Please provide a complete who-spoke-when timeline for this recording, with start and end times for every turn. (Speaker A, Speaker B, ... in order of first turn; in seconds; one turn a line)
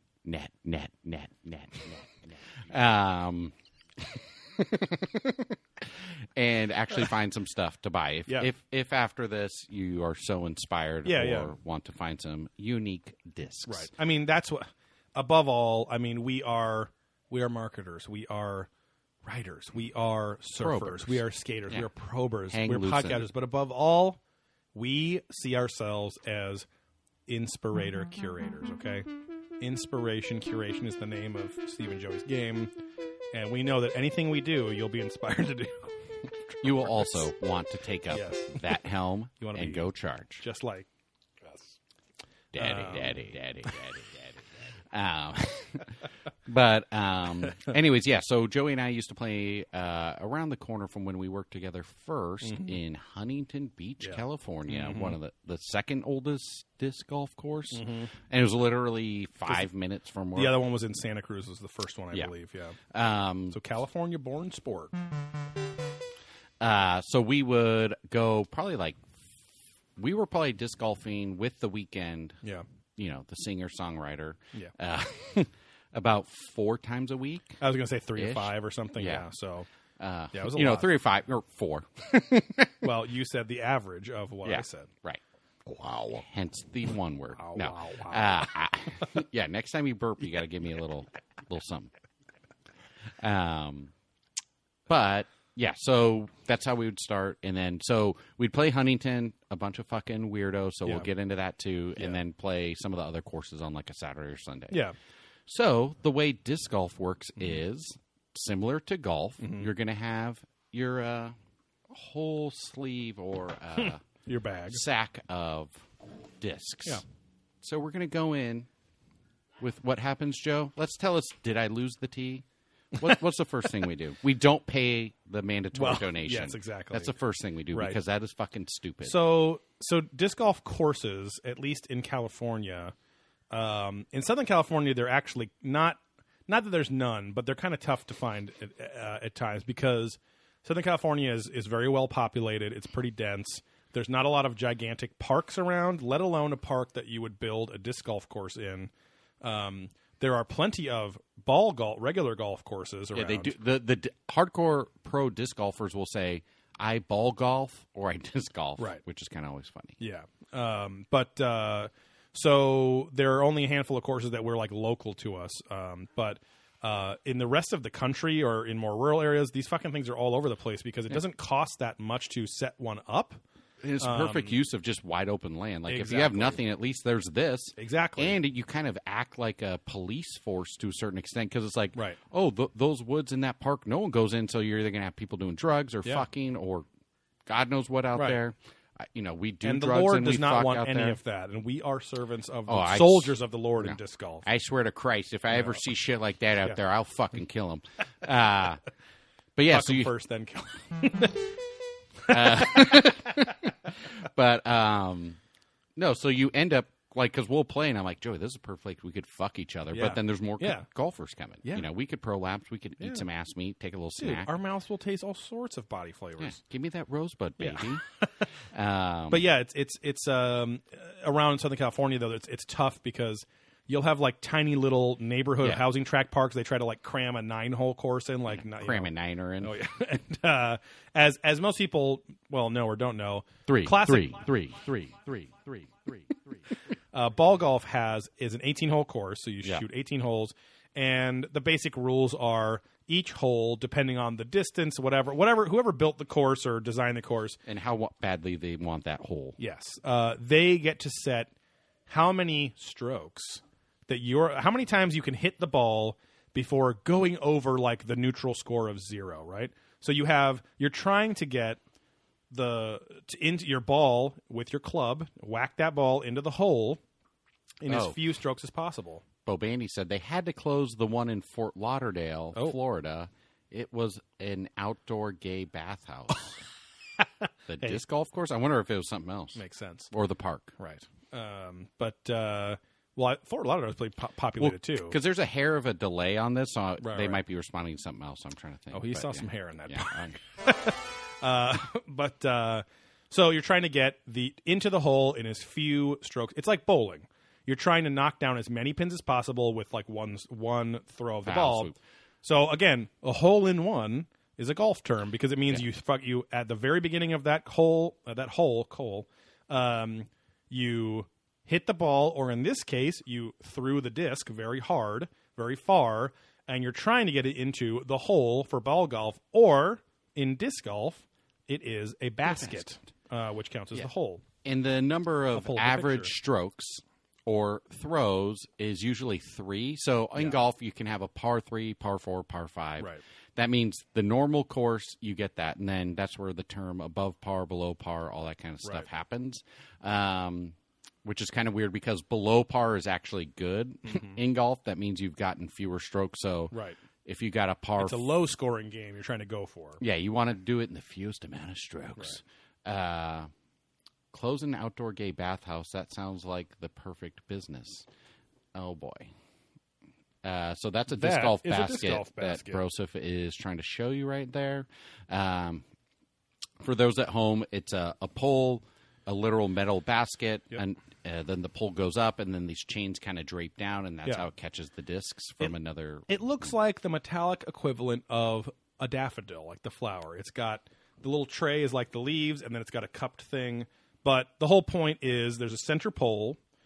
Speaker A: 0.2-13.9
Speaker B: 11.0-11.5
Speaker B: 13.7-18.7
Speaker B: 19.2-24.2
Speaker A: 20.6-21.9
Speaker A: 22.5-23.2
Speaker B: 24.7-26.7
Speaker B: 27.3-29.1
Speaker B: 29.6-32.7
Speaker B: 33.3-37.0
Speaker A: 36.6-40.4
Speaker B: 38.1-38.7
Speaker B: 39.4-40.9
Speaker B: 41.4-41.8
Speaker A: 42.5-60.6
Speaker B: 42.6-43.3
Speaker B: 52.4-52.7
Speaker B: 54.0-55.1
Speaker B: 57.7-58.1
Speaker B: 60.3-62.8
Speaker A: 62.9-63.6
Speaker B: 63.5-64.9
Speaker A: 66.6-69.1
Speaker A: 70.0-72.4
Speaker A: 73.0-77.6
Speaker B: 77.6-79.7
Speaker A: 78.2-79.3
Speaker A: 80.0-82.9
Speaker B: 80.3-80.9
Speaker B: 82.8-84.9
Speaker A: 84.4-91.9
Speaker B: 87.3-88.5
Speaker A: 93.2-93.9
Speaker A: 94.9-104.8
Speaker A: 105.5-111.3
Speaker B: 109.4-109.7
Speaker A: 111.9-114.0
Speaker B: 113.8-114.8
Speaker A: 114.7-115.8
Speaker A: 116.4-117.0
Speaker A: 117.6-118.7
Speaker A: 119.6-129.2
Speaker B: 125.7-127.1
Speaker B: 127.7-128.0
Speaker B: 129.0-132.9
Speaker B: 133.5-153.6
Speaker A: 153.1-160.0
Speaker B: 160.0-173.4
Speaker A: 173.8-186.8
Speaker B: 174.0-174.6
Speaker B: 175.9-176.6
Speaker B: 177.8-178.4
Speaker A: 187.4-191.2
Speaker B: 188.1-188.4
Speaker B: 189.6-194.4
Speaker A: 192.7-198.8
Speaker B: 195.5-195.8
Speaker A: 199.6-200.1
Speaker B: 199.7-201.5
Speaker B: 202.2-203.0
Speaker A: 202.3-205.4
Speaker A: 205.9-214.5
Speaker B: 209.9-210.9
Speaker B: 213.0-213.2
Speaker B: 214.2-216.6
Speaker A: 216.4-218.0
Speaker B: 217.6-218.4
Speaker A: 218.6-219.4
Speaker B: 219.3-234.5
Speaker A: 228.5-229.7
Speaker A: 233.7-236.3
Speaker B: 237.1-247.6
Speaker A: 247.7-249.6
Speaker B: 249.6-251.5
Speaker B: 252.1-261.8
Speaker B: 262.5-267.0
Speaker B: 267.8-269.2
Speaker A: 267.9-268.2
Speaker A: 269.4-276.6
Speaker A: 277.7-279.6
Speaker B: 279.5-280.1
Speaker A: 280.1-280.8
Speaker B: 280.8-285.2
Speaker A: 284.6-290.3
Speaker B: 287.0-287.4
Speaker B: 288.9-301.9
Speaker A: 301.4-301.9
Speaker B: 302.4-324.4
Speaker A: 322.5-322.8
Speaker A: 324.6-346.7
Speaker B: 325.5-326.3
Speaker B: 344.1-344.4
Speaker B: 346.7-347.0
Speaker A: 347.2-348.2
Speaker B: 348.0-350.0
Speaker A: 350.0-353.5
Speaker A: 354.3-358.1
Speaker A: 358.7-359.3
Speaker A: 360.4-365.8
Speaker B: 361.1-362.8
Speaker A: 366.8-376.7
Speaker B: 376.3-386.6